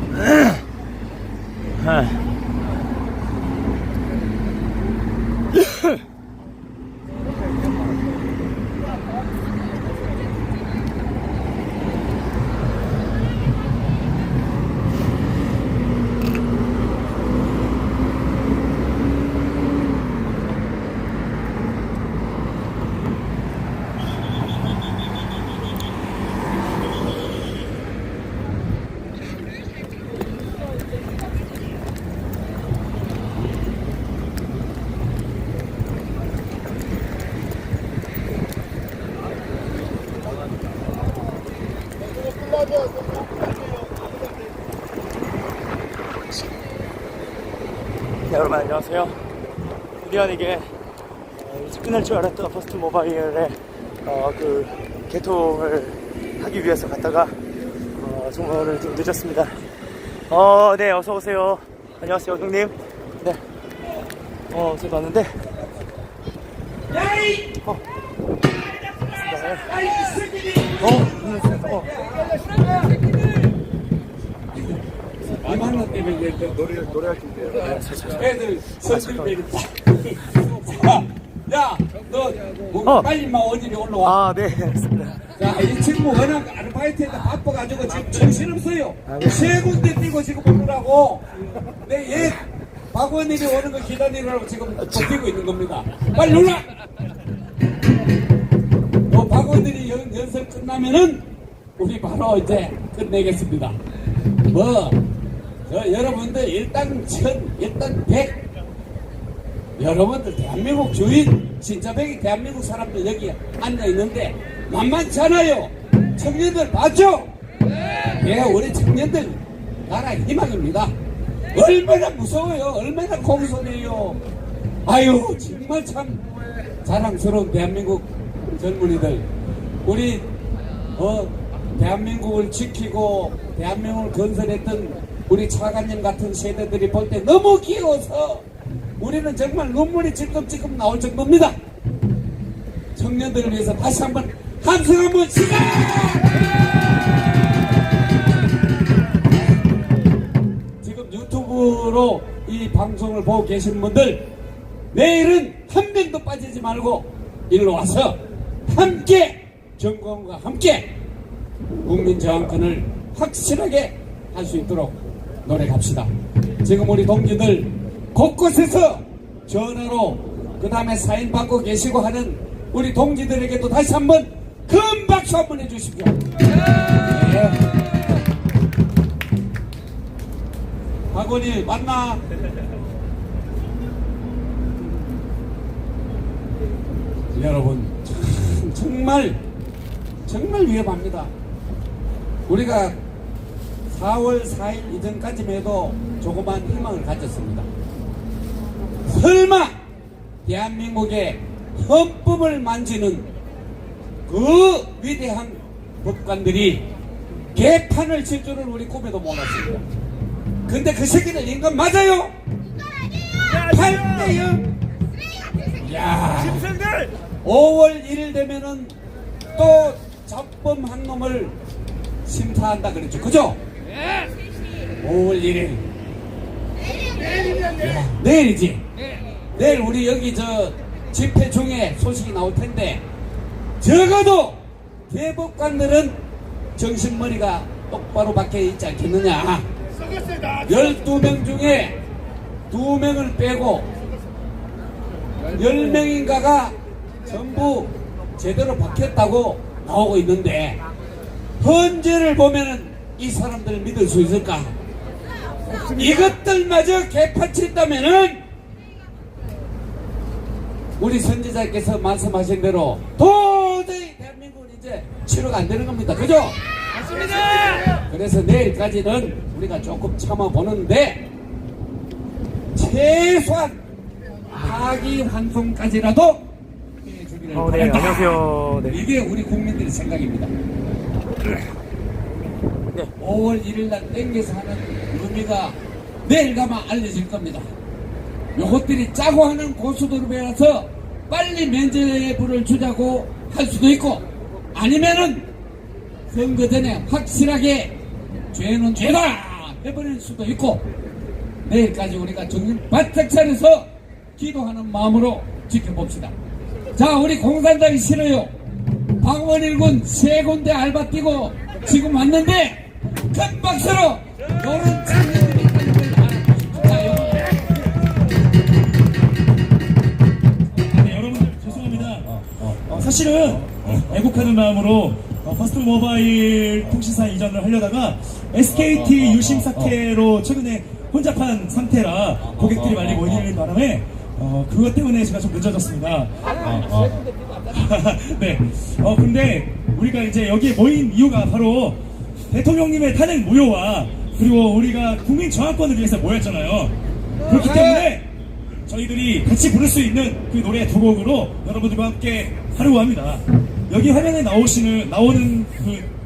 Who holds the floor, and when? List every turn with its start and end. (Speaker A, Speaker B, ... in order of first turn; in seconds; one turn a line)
Speaker A: 0.2-0.6
Speaker A: 1.8-2.2
Speaker A: 5.6-6.0
Speaker A: 48.2-49.2
Speaker A: 50.0-50.7
Speaker A: 51.4-57.4
Speaker A: 58.0-59.6
Speaker A: 60.3-63.4
Speaker A: 64.5-65.4
Speaker B: 66.9-67.6
Speaker A: 69.1-69.7
Speaker B: 69.7-71.0
Speaker A: 70.8-71.9
Speaker B: 71.8-72.4
Speaker B: 75.4-77.2
Speaker A: 77.4-78.3
Speaker B: 78.2-84.2
Speaker A: 78.9-79.3
Speaker A: 84.0-85.3
Speaker B: 85.4-91.3
Speaker A: 89.1-89.6
Speaker B: 91.8-96.7
Speaker B: 99.1-101.2
Speaker B: 101.8-103.8
Speaker B: 104.5-105.0
Speaker B: 105.7-108.4
Speaker B: 109.8-117.3
Speaker B: 118.1-120.9
Speaker B: 121.5-124.2
Speaker B: 124.9-126.2
Speaker B: 126.8-129.3
Speaker B: 129.8-130.3
Speaker B: 131.0-138.5
Speaker B: 139.0-141.6
Speaker B: 143.0-146.4
Speaker B: 150.8-154.3
Speaker B: 154.9-161.0
Speaker B: 161.8-166.1
Speaker B: 166.6-176.2
Speaker B: 176.9-177.7
Speaker B: 181.1-182.2
Speaker B: 187.3-189.4
Speaker B: 190.3-191.3
Speaker B: 192.5-193.0
Speaker B: 193.9-197.7
Speaker B: 199.1-199.8
Speaker B: 200.4-203.3
Speaker B: 204.3-206.9
Speaker B: 207.5-209.8
Speaker B: 210.7-212.3
Speaker B: 213.4-214.7
Speaker B: 215.8-216.7
Speaker B: 217.4-219.0
Speaker B: 219.6-221.6
Speaker B: 222.2-223.6
Speaker B: 225.0-225.9
Speaker B: 227.8-228.9
Speaker B: 229.5-233.1
Speaker B: 233.8-236.2
Speaker B: 236.8-239.7
Speaker B: 240.7-242.0
Speaker B: 242.7-243.9
Speaker B: 245.5-250.8
Speaker B: 251.6-254.7
Speaker B: 255.8-258.4
Speaker B: 261.0-266.6
Speaker B: 267.7-271.3
Speaker B: 272.7-273.8
Speaker B: 274.5-276.5
Speaker B: 277.0-280.5
Speaker A: 277.5-279.0
Speaker B: 283.2-287.7
Speaker B: 288.6-295.5
Speaker B: 296.3-298.0
Speaker B: 298.5-300.9
Speaker B: 301.6-306.3
Speaker B: 306.9-308.5
Speaker B: 309.2-317.7
Speaker C: 320.9-337.2
Speaker C: 337.7-346.9
Speaker C: 347.5-348.3
Speaker C: 348.9-356.1